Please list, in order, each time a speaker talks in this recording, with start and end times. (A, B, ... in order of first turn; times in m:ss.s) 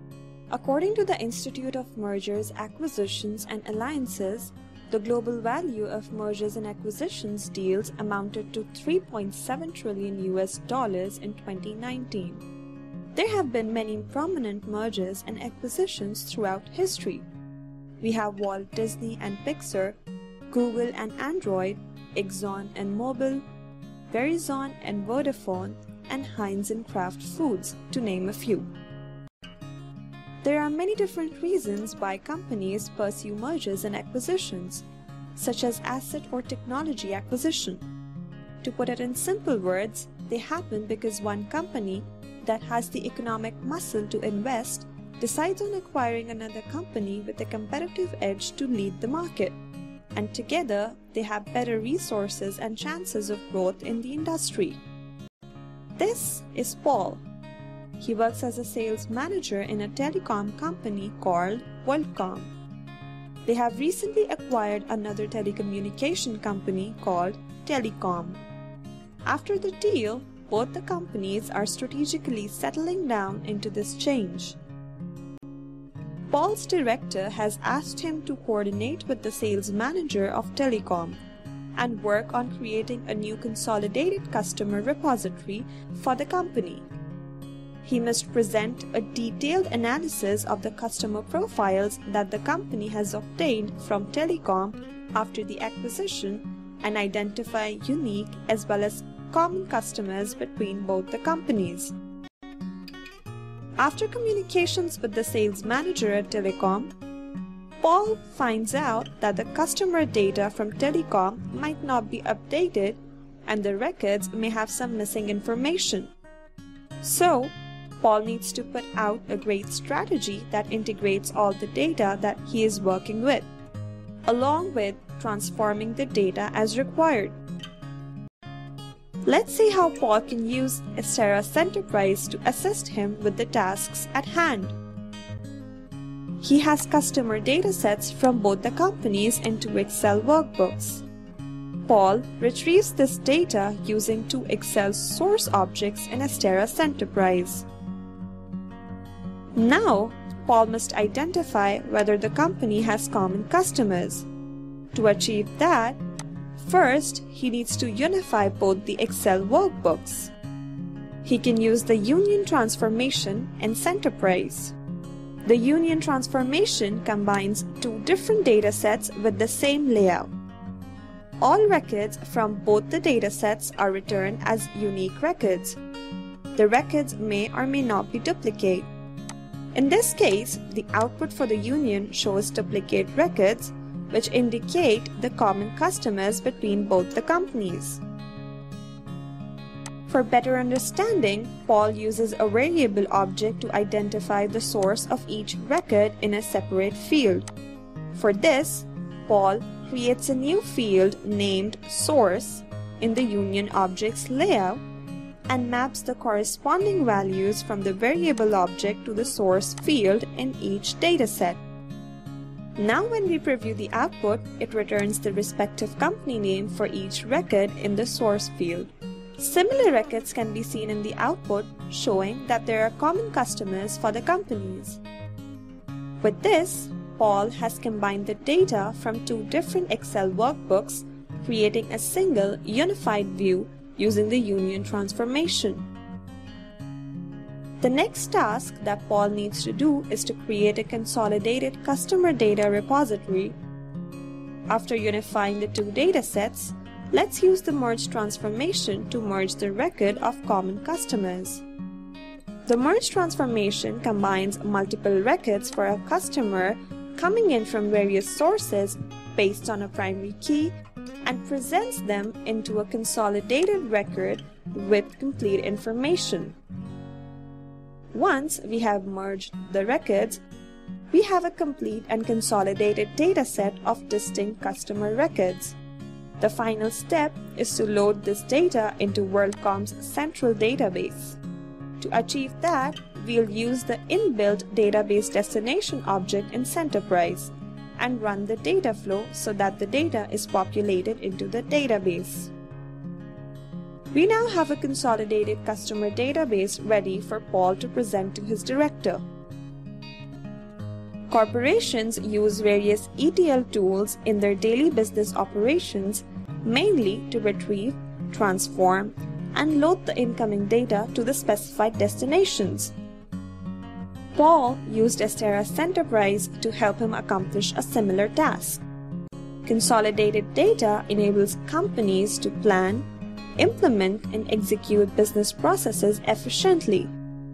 0:00.5-0:12.4 A
0:13.1-0:17.2 A
0:18.0-0:20.0 A
0:20.5-0:23.4 A
0:24.1-0:28.7 A
0:30.4-0:34.8 A
0:35.4-0:37.8 A
0:38.6-0:49.6 A
0:50.1-0:54.8 A
0:56.0-0:57.2 A
0:58.0-1:02.5 A
1:03.4-1:08.4 A
1:09.2-1:14.6 A
1:16.3-1:21.2 A
1:21.8-1:26.8 A
1:27.8-1:41.9 A
1:43.8-1:46.9 A
1:47.8-1:56.1 A
1:57.0-2:03.5 A
2:04.3-2:07.3 A
2:09.2-2:14.8 A
2:16.4-2:21.0 A
2:21.9-2:27.7 A
2:29.6-2:34.3 A
2:34.9-2:36.0 A
2:36.6-2:40.3 A
2:41.2-2:44.7 A
2:45.4-2:50.3 A
2:51.4-2:55.8 A
2:56.6-2:58.9 A
2:59.7-3:08.0 A
3:10.1-3:17.5 A
3:18.1-3:24.8 A
3:25.5-3:31.6 A
3:32.8-3:45.0 A
3:46.2-3:55.9 A
3:57.8-4:03.6 A
4:04.7-4:11.6 A
4:12.7-4:20.7 A
4:21.2-4:26.6 A
4:28.1-4:30.4 A
4:31.1-4:35.8 A
4:36.4-4:41.4 A
4:42.0-4:52.5 A
4:54.1-4:59.2 A
5:01.3-5:12.9 A
5:14.4-5:18.8 A
5:19.6-5:23.1 A
5:23.6-5:27.1 A